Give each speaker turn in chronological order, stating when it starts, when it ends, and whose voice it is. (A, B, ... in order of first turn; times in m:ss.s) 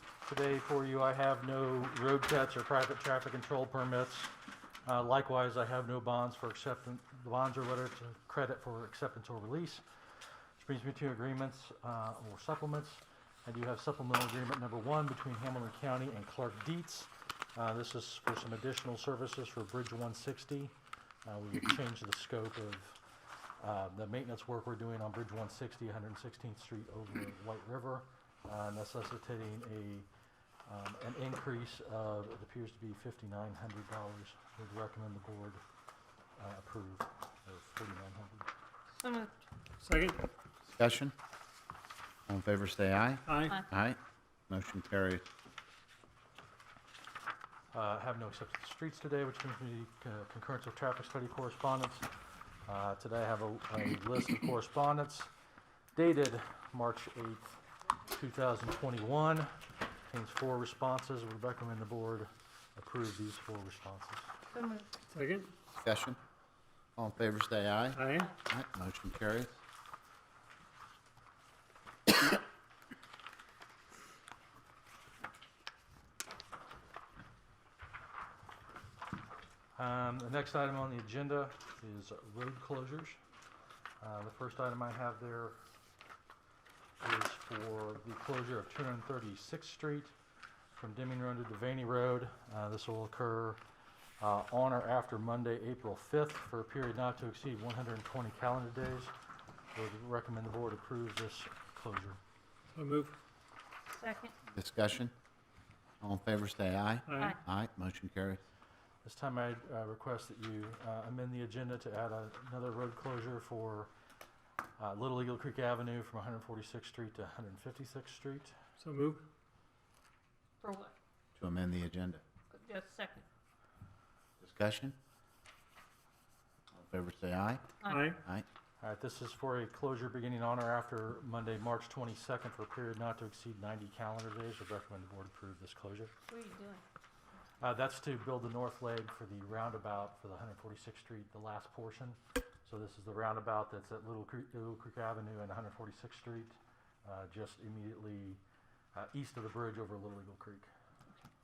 0:00.2-0:04.3 A
0:04.9-0:09.8 A
0:10.6-0:23.0 A
0:23.6-0:30.1 A
0:30.7-0:35.6 A
0:36.4-0:38.5 A
0:39.0-0:39.4 B
0:39.8-0:40.3 C
0:40.7-0:41.1 D
0:42.3-0:44.0 D
0:43.3-0:43.6 C
0:44.5-0:45.2 D
0:47.7-0:52.1 A
0:52.7-0:55.3 A
0:55.9-0:57.5 A
0:58.1-0:59.5 A
1:00.1-1:04.3 A
1:04.5-1:04.9 B
1:05.1-1:05.5 C
1:05.8-1:06.2 D
1:07.0-1:09.6 D
1:08.0-1:08.3 C
1:19.8-1:23.2 A
1:24.0-1:25.6 A
1:27.0-1:30.1 A
1:30.7-1:33.6 A
1:34.2-1:39.1 A
1:39.7-1:42.2 A
1:42.7-1:43.2 C
1:43.9-1:44.3 B
1:44.5-1:45.1 D
1:46.0-1:48.4 D
1:47.1-1:47.4 C
1:49.0-1:53.9 A
1:54.8-1:58.6 A
1:58.8-1:59.2 C
2:00.6-2:00.9 B
2:01.4-2:02.2 D
2:02.5-2:03.2 B
2:04.4-2:05.0 D
2:06.7-2:07.7 D
2:07.8-2:08.1 B
2:07.9-2:08.2 C
2:08.8-2:16.1 A
2:16.3-2:16.8 B
2:17.6-2:28.4 A
2:28.9-2:30.7 A